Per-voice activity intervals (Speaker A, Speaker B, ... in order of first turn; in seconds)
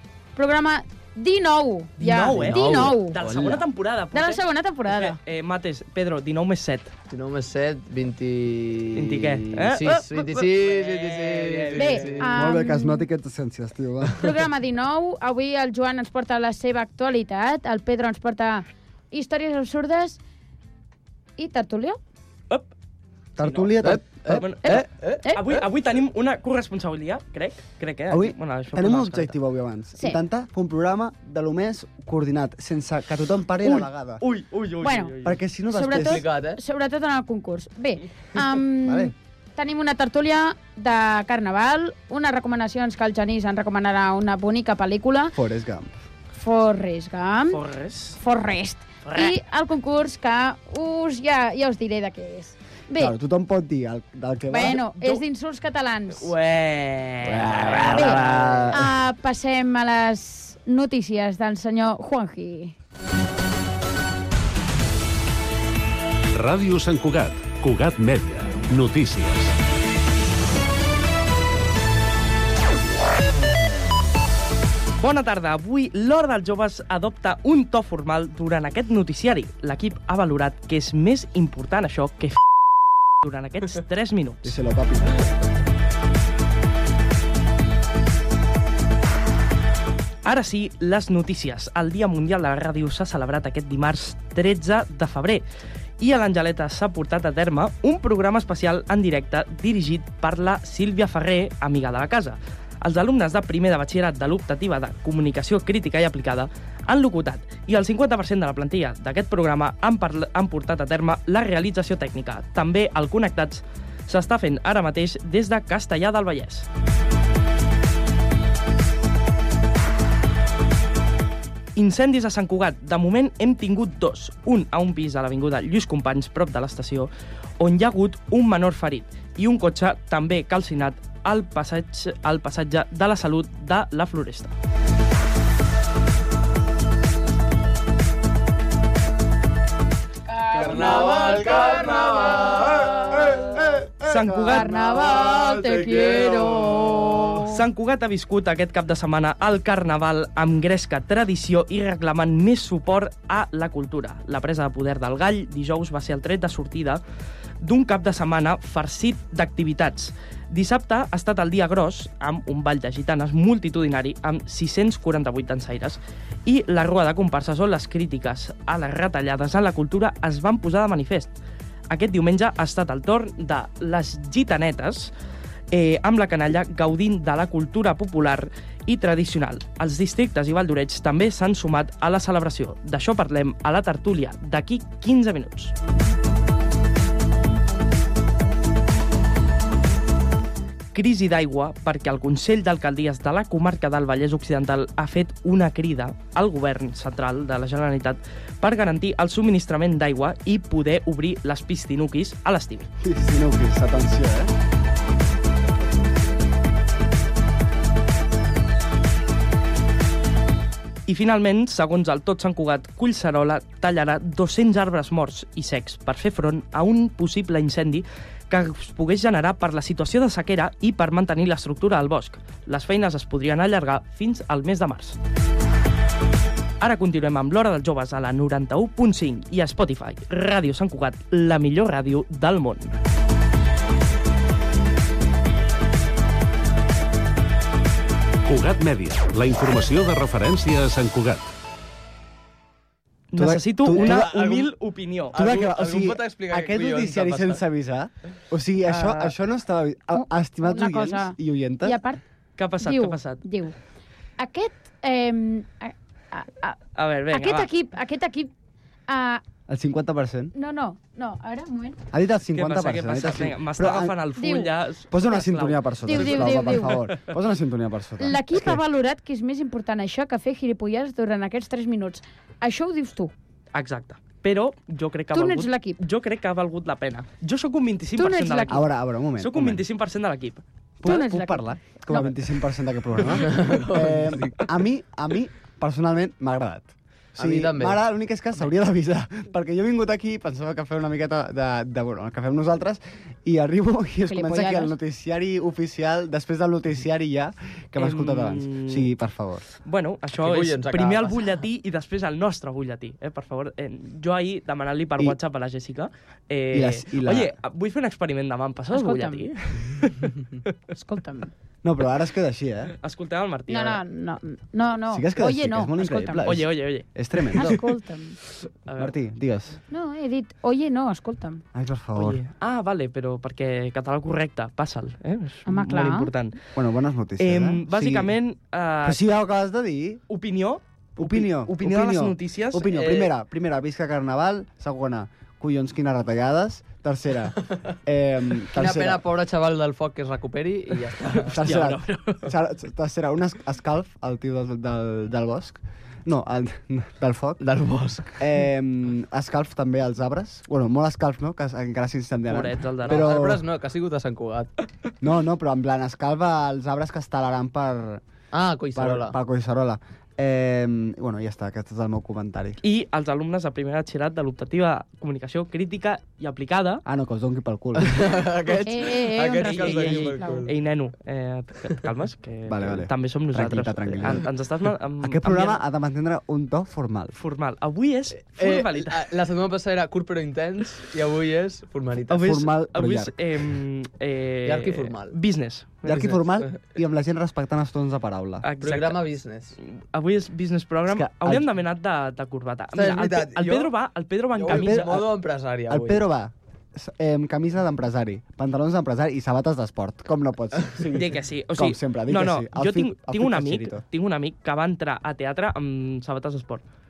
Speaker A: 0.3-3.2, 4.1-5.2, 11.8-13.0, 14.2-20.2, 21.4-22.0, 24.6-25.4, 34.8-35.2, 35.7-45.3, 46.3-47.6, 48.2-53.1, 54.5-56.3, 57.9-62.7, 140.3-143.5, 144.5-147.6, 250.1-252.2, 252.8-253.8, 254.4-258.5, 259.1-259.4, 260.5-262.0, 264.4-264.7, 266.0-267.0, 268.2-273.3, 275.3-276.0, 278.2-278.8, 281.1-281.7, 294.2-294.9, 308.9-309.4, 310.9-311.5, 313.7-316.5, 317.5-318.4, 319.9-321.6, 325.6-326.3, 368.9-370.7
Speaker B: 2.0-6.9, 8.9-12.4, 23.4-29.4, 33.6-35.4, 47.5-48.2, 49.0-49.3, 56.1-58.7, 75.0-82.4, 83.2-84.5, 90.2-95.4, 96.0-116.7, 121.8-134.5, 144.0-144.7, 147.5-157.0, 157.6-171.3, 171.9-175.1, 175.7-185.7, 190.9-202.9, 211.1-225.2, 226.8-233.0, 243.3-245.4, 252.6-253.4, 256.9-257.7, 262.5-267.4, 273.7-278.8, 279.4-281.1, 298.0-299.1, 299.8-310.3, 313.0-314.0, 316.4-317.7, 318.9-319.1, 322.1-326.6, 327.4-329.2, 330.3-332.9, 341.2-342.5, 352.5-353.4, 362.8-367.0, 369.6-375.8, 377.3-379.2, 382.3-386.3, 388.6-389.2, 389.8-395.2, 401.1-406.8
Speaker C: 2.3-3.5, 7.1-12.4, 23.8-25.6, 36.0-36.6, 140.5-142.9, 145.0-146.4, 243.9-244.7, 245.3-247.6, 283.4-284.6, 287.4-288.0, 300.4-301.4, 332.9-333.3, 338.7-341.6, 347.6-348.4, 353.1-354.7, 358.5-359.4, 368.0-370.7, 378.4-382.4, 384.6-385.4, 386.1-386.8, 388.8-389.7, 392.9-393.9, 394.5-396.2
Speaker D: 12.3-14.3, 23.4-24.4, 28.1-34.2, 35.2-36.2, 38.8-39.1, 45.3-46.0, 53.0-54.8, 57.2-58.9, 84.4-85.2, 142.9-146.1, 203.0-204.5, 243.3-244.4, 245.3-252.0, 259.7-260.5, 262.1-264.1, 265.1-268.8, 278.7-279.8, 281.0-299.6, 306.7-307.5, 311.8-312.9, 315.1-317.9, 319.0-319.8, 321.7-322.4, 326.7-328.4, 329.0-330.2, 331.2-339.2, 341.5-347.6, 348.4-353.6, 355.2-358.2, 358.9-362.8, 367.0-368.3, 372.7-374.5, 375.2-377.4, 382.3-383.4, 386.0-388.6, 391.1-391.7, 394.7-395.3, 395.9-404.0
Speaker E: 66.3-69.6, 238.4-241.5